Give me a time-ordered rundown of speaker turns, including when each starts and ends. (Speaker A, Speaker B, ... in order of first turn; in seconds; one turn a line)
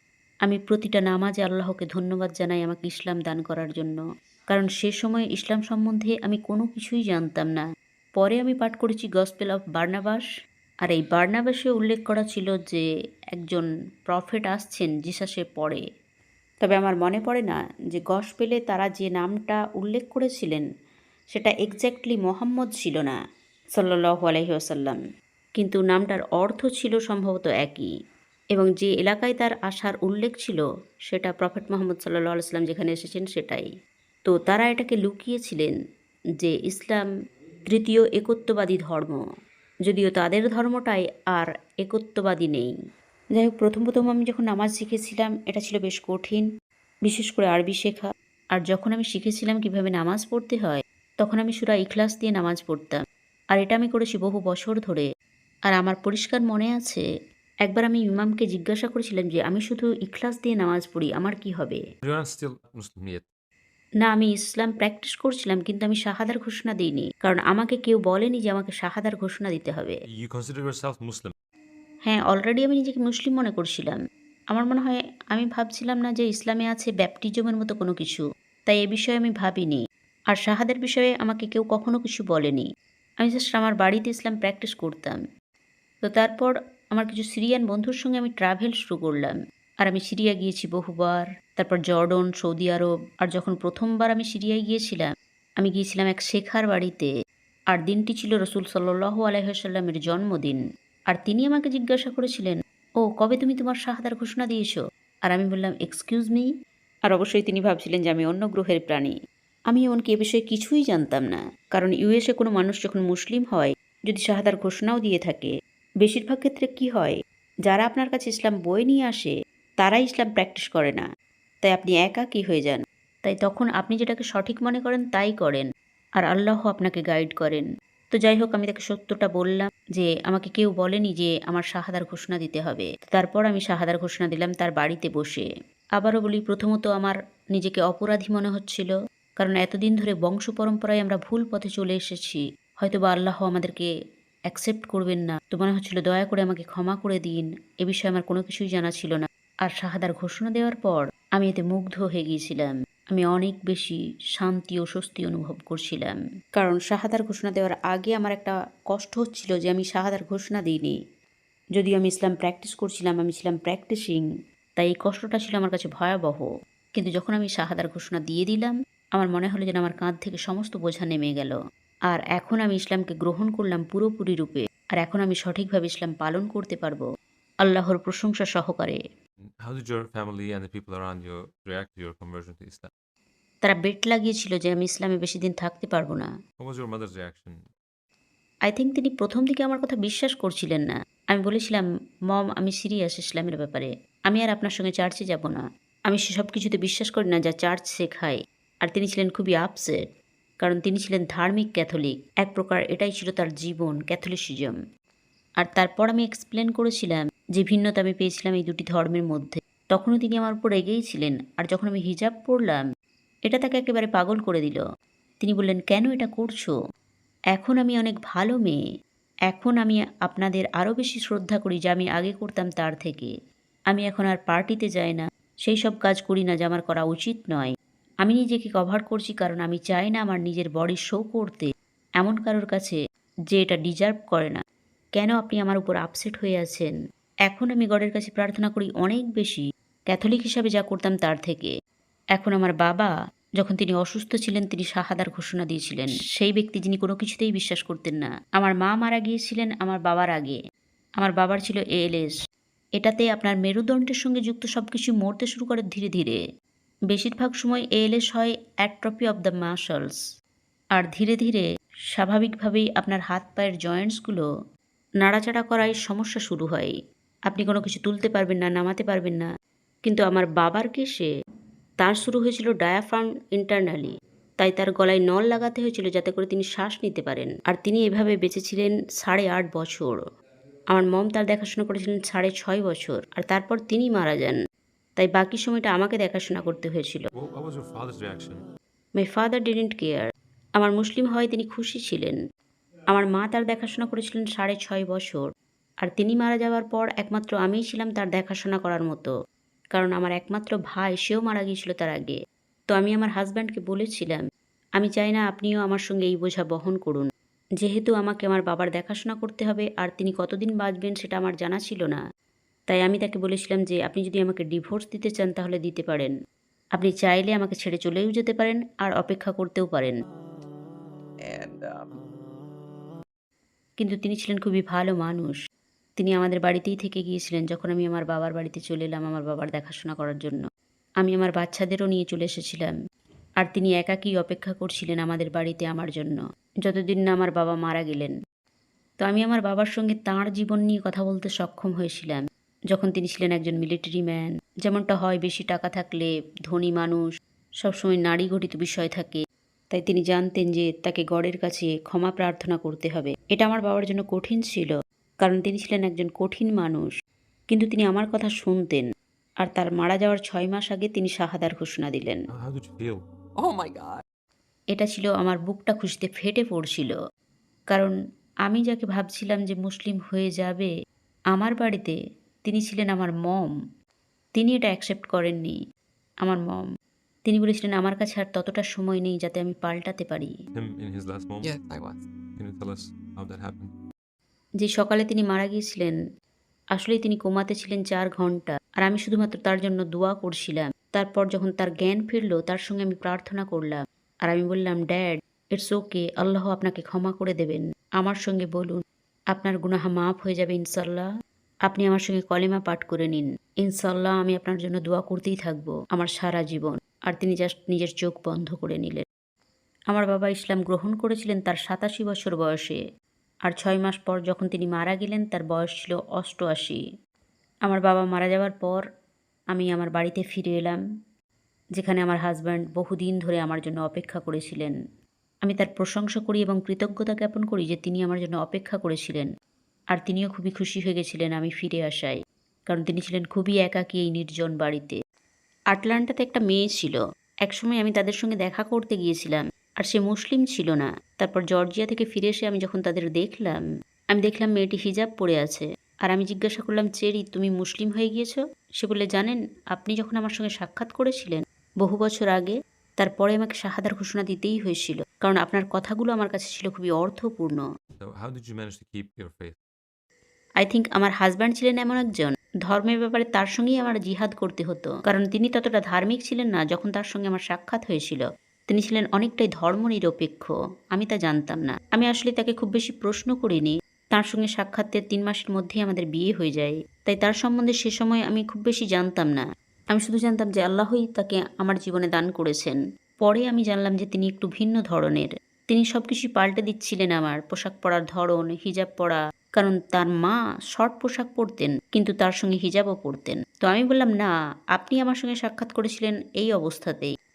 Speaker A: 0.4-7.6
Speaker A: 8.2-10.2
Speaker A: 10.8-15.8
Speaker A: 16.6-20.6
Speaker A: 21.3-23.2
Speaker A: 23.8-25.0
Speaker A: 25.6-27.9
Speaker A: 28.5-33.7
Speaker A: 34.3-35.7
Speaker A: 36.4-37.0
Speaker A: 37.7-39.2
Speaker A: 39.8-42.7
Speaker A: 43.3-46.5
Speaker A: 47.0-55.1
Speaker A: 55.7-57.0
Speaker A: 57.6-61.8
Speaker B: 62.0-63.2
Speaker A: 64.0-70.0
Speaker B: 70.1-71.3
Speaker A: 72.0-74.0
Speaker A: 74.5-82.7
Speaker A: 83.2-85.2
Speaker A: 86.0-97.1
Speaker A: 97.7-106.5
Speaker A: 107.1-109.1
Speaker A: 109.7-115.5
Speaker A: 116.0-121.0
Speaker A: 121.6-125.7
Speaker A: 126.2-143.9
Speaker A: 144.5-160.9
Speaker A: 161.7-164.2
Speaker A: 164.8-171.6
Speaker A: 172.1-177.0
Speaker A: 177.6-179.0
Speaker B: 179.6-182.9
Speaker A: 183.6-186.3
Speaker B: 186.6-187.7
Speaker A: 188.7-200.0
Speaker A: 200.6-204.8
Speaker A: 205.6-212.8
Speaker A: 213.5-214.8
Speaker A: 215.4-216.8
Speaker A: 217.5-218.8
Speaker A: 219.5-223.3
Speaker A: 223.9-227.7
Speaker A: 228.2-233.0
Speaker A: 233.5-234.6
Speaker A: 235.2-236.9
Speaker A: 237.5-241.7
Speaker A: 242.3-250.6
Speaker A: 251.2-252.4
Speaker A: 253.0-256.4
Speaker A: 257.1-260.2
Speaker A: 260.9-264.4
Speaker A: 265.2-266.9
Speaker A: 267.5-269.5
Speaker A: 270.0-271.3
Speaker A: 272.0-280.2
Speaker A: 280.9-284.6
Speaker A: 285.2-287.2
Speaker B: 287.4-288.6
Speaker A: 289.2-292.4
Speaker A: 293.1-295.4
Speaker A: 296.0-299.3
Speaker A: 299.9-302.4
Speaker A: 302.9-304.4
Speaker A: 305.0-307.3
Speaker A: 307.8-312.2
Speaker A: 312.9-316.3
Speaker A: 317.0-320.1
Speaker C: 321.4-322.2
Speaker A: 324.0-325.6
Speaker A: 326.2-330.6
Speaker A: 331.2-332.9
Speaker A: 333.6-338.4
Speaker A: 339.2-347.3
Speaker A: 347.8-357.1
Speaker A: 357.7-359.0
Speaker A: 359.6-362.4
Speaker B: 362.5-363.2
Speaker C: 363.6-364.2
Speaker A: 364.9-367.1
Speaker A: 368.6-370.9
Speaker A: 371.5-373.7
Speaker A: 374.6-375.8
Speaker A: 376.4-376.8
Speaker A: 377.5-380.5
Speaker B: 380.7-381.7
Speaker C: 381.6-382.2
Speaker B: 382.6-383.9
Speaker A: 384.8-386.2
Speaker A: 386.9-401.3
Speaker A: 401.9-409.2
Speaker A: 410.1-413.0
Speaker A: 413.6-417.0
Speaker A: 417.9-419.0
Speaker A: 419.7-421.0
Speaker A: 422.0-424.9
Speaker A: 425.6-429.5
Speaker A: 430.1-435.2
Speaker A: 435.9-443.8
Speaker A: 444.3-457.8
Speaker B: 458.2-459.8
Speaker A: 460.8-497.3